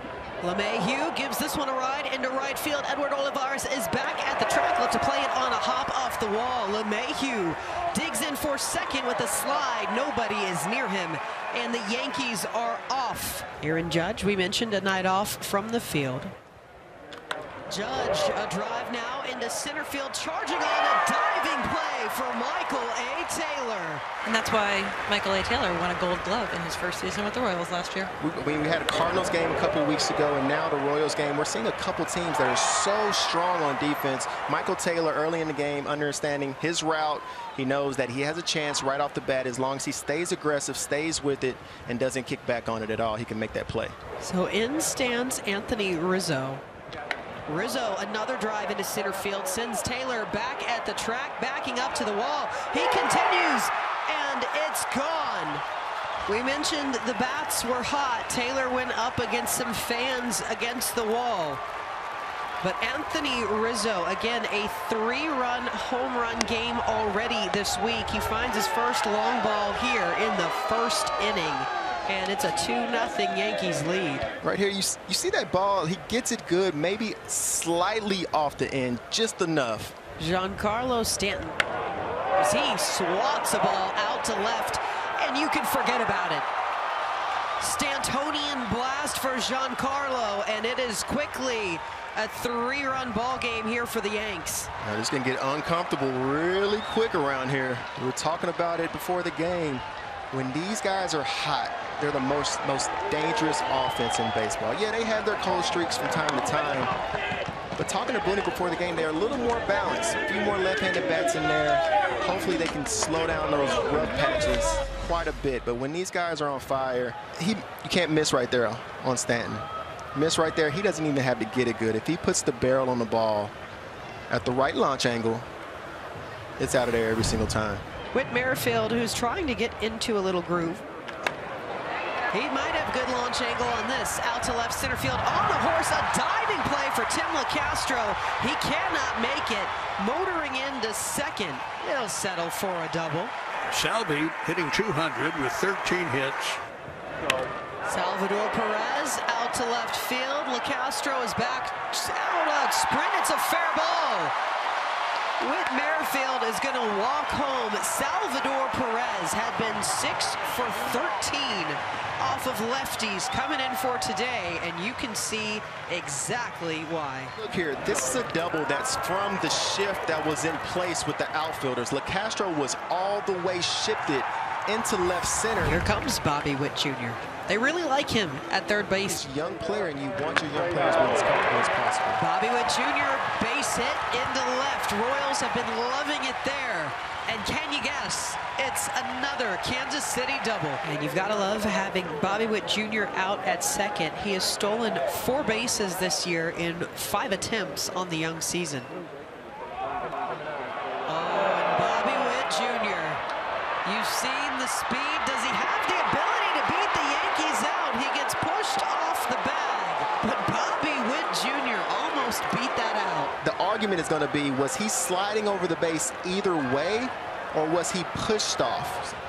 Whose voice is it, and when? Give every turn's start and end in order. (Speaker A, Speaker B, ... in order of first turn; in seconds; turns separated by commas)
Speaker A: 0.4-16.3, Speaker A: 17.7-24.0, Speaker B: 24.2-28.1, Speaker C: 28.2-43.9, Speaker A: 44.2-46.6, Speaker A: 47.5-55.6, Speaker A: 56.2-61.6, Speaker A: 62.6-74.3, Speaker C: 74.4-79.9, Speaker A: 80.2-81.6, Speaker A: 82.4-86.5, Speaker A: 87.6-94.7, Speaker C: 94.8-106.9, Speaker C: 107.8-123.5, Speaker C: 124.3-125.5, Speaker C: 126.6-127.8, Speaker A: 128.1-130.8, Speaker A: 132.3-143.3, Speaker D: 143.7-146.6, Speaker A: 147.8-154.3, Speaker A: 155.4-167.3, Speaker C: 167.4-175.8, Speaker A: 175.6-179.2, Speaker C: 179.0-182.2, Speaker A: 182.2-198.9, Speaker A: 201.1-203.2, Speaker A: 203.8-213.3, Speaker C: 213.4-219.1